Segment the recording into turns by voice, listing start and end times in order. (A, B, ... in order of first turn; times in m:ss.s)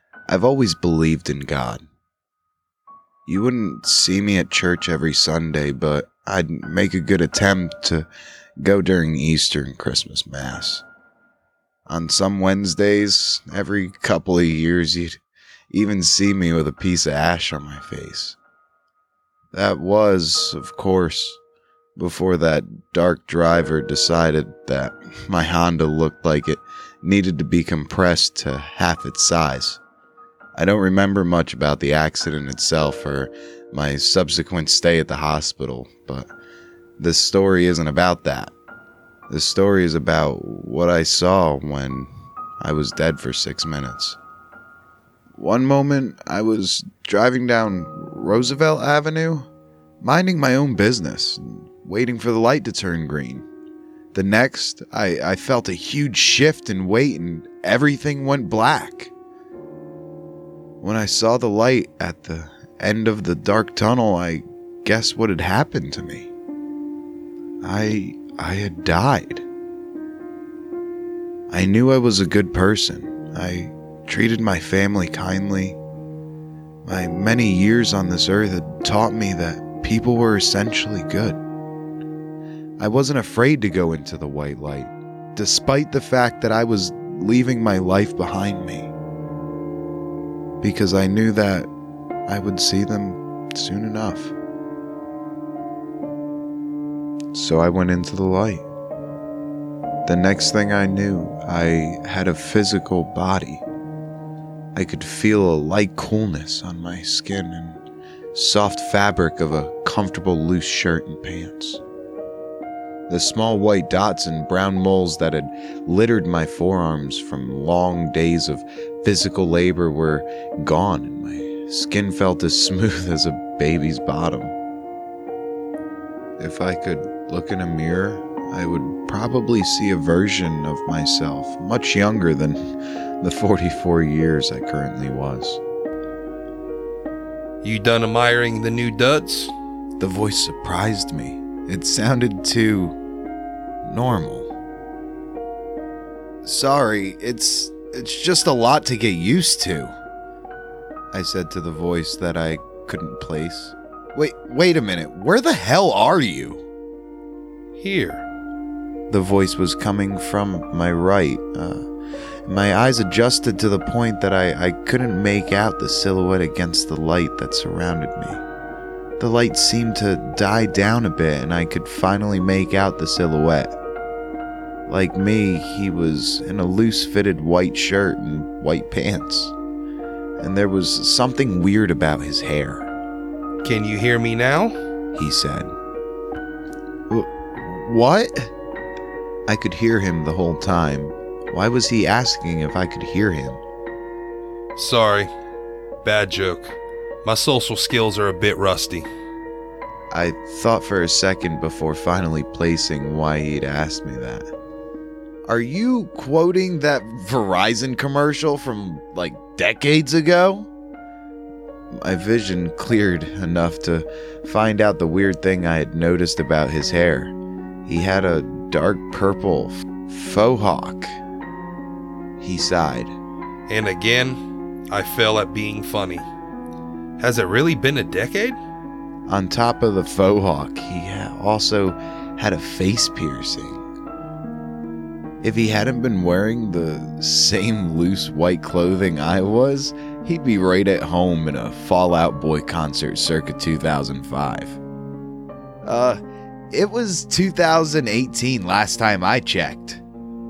0:00.3-0:01.9 A
0:03.2-0:08.1 A
0:08.6-0:10.8 A
0:11.9-0:18.4 A
0:19.5-0:21.4 A
0:22.0-0:29.8 A
0:30.6-0:36.3 A
0:37.0-0:38.5 A
0:39.3-0:44.2 A
0:45.4-0:49.5 A
0:50.0-0:53.4 A
0:54.1-0:59.1 A
1:00.8-1:06.3 A
1:07.6-1:09.4 A
1:11.5-1:15.8 A
1:16.8-1:21.4 A
1:22.8-1:28.9 A
1:30.6-1:31.7 A
1:32.3-1:34.3 A
1:37.3-1:38.6 A
1:40.0-1:43.6 A
1:44.7-1:47.8 A
1:48.3-1:51.8 A
1:53.1-2:04.5 A
2:06.4-2:12.7 A
2:13.2-2:15.6 A
2:17.6-2:19.5 B
2:20.0-2:23.0 A
2:23.8-2:24.5 A
2:26.4-2:29.9 A
2:31.1-2:36.6 A
2:37.8-2:38.2 B
2:39.1-2:41.8 A
2:42.4-2:48.4 A
2:49.2-2:53.8 A
2:54.9-2:59.5 A
3:00.4-3:02.9 A
3:03.6-3:04.7 B
3:05.1-3:05.7 A
3:07.1-3:08.5 A
3:09.5-3:13.6 A
3:14.8-3:15.3 B
3:16.0-3:19.1 B
3:20.1-3:24.5 A
3:25.5-3:30.7 A
3:31.9-3:37.3 A
3:37.8-3:41.1 A
3:42.4-3:43.2 A
3:43.7-3:46.3 B
3:47.2-3:48.6 B
3:49.3-3:53.8 A
3:55.4-4:04.8 A
4:05.8-4:06.2 A
4:06.7-4:10.0 A